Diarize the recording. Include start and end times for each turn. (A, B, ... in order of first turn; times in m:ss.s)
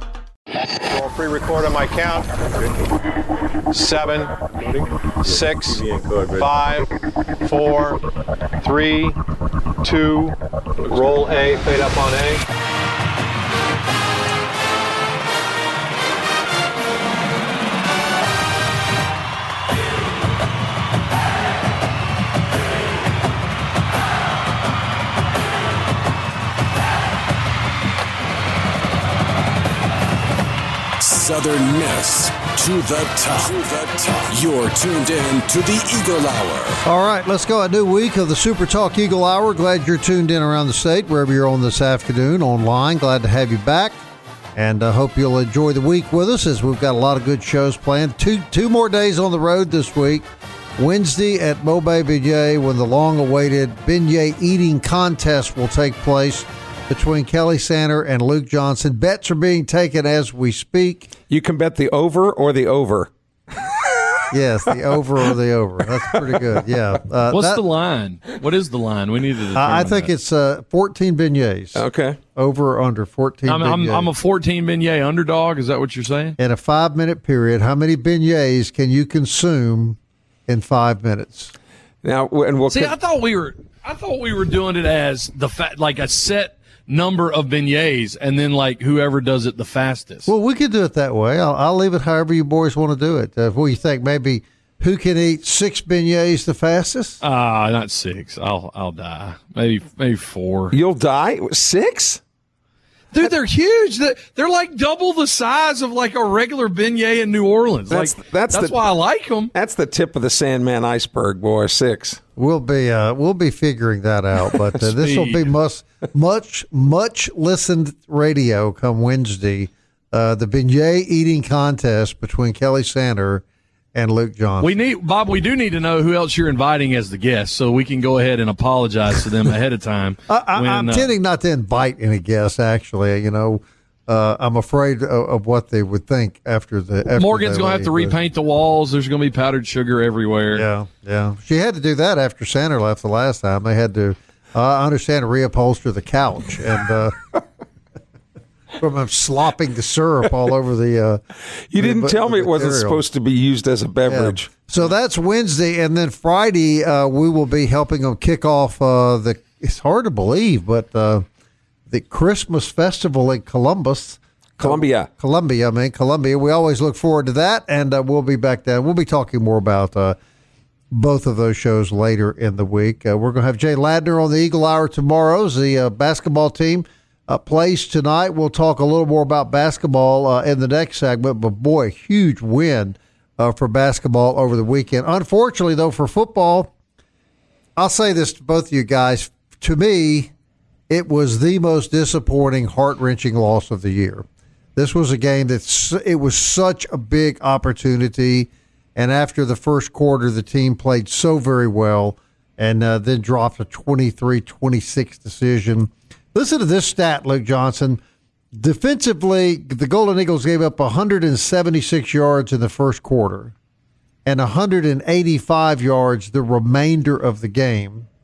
0:00.7-0:02.8 A
0:03.7-0:06.9 A
0:07.4-0:08.0 A
0:08.6-0:09.2 A
0:09.8-0:12.4 A
0:31.0-0:36.8 B
0:36.8-0:44.0 C
0:44.6-0:50.2 C
0:50.8-1:01.1 C
1:01.3-1:04.3 D
1:04.3-1:07.6 C
1:06.1-1:06.6 D
1:07.3-1:10.1 E
1:09.5-1:11.8 C
1:11.7-1:12.2 D
1:12.4-1:14.1 C
1:13.5-1:16.4 E
1:16.4-1:21.5 C
1:22.0-1:22.9 D
1:22.7-1:30.3 E
1:30.3-1:37.2 C
1:37.2-1:40.7 E
1:40.7-1:42.2 D
1:43.1-1:49.5 E
1:47.9-1:48.8 D
1:49.5-1:52.2 D
1:52.4-2:04.8 C
1:54.8-1:55.4 E
2:04.6-2:11.1 E
2:10.3-2:18.1 C
2:17.2-2:20.6 E
2:20.5-2:27.4 C
2:28.8-2:31.2 C
2:31.7-2:34.5 D
2:31.8-2:33.0 C
2:34.1-2:41.2 C
2:41.9-2:50.2 C
2:44.6-2:45.1 D
2:50.9-3:06.7 C
3:07.8-3:10.3 C
3:10.9-3:14.2 C
3:14.8-3:28.0 C
3:28.5-3:33.5 C
3:34.2-3:38.1 C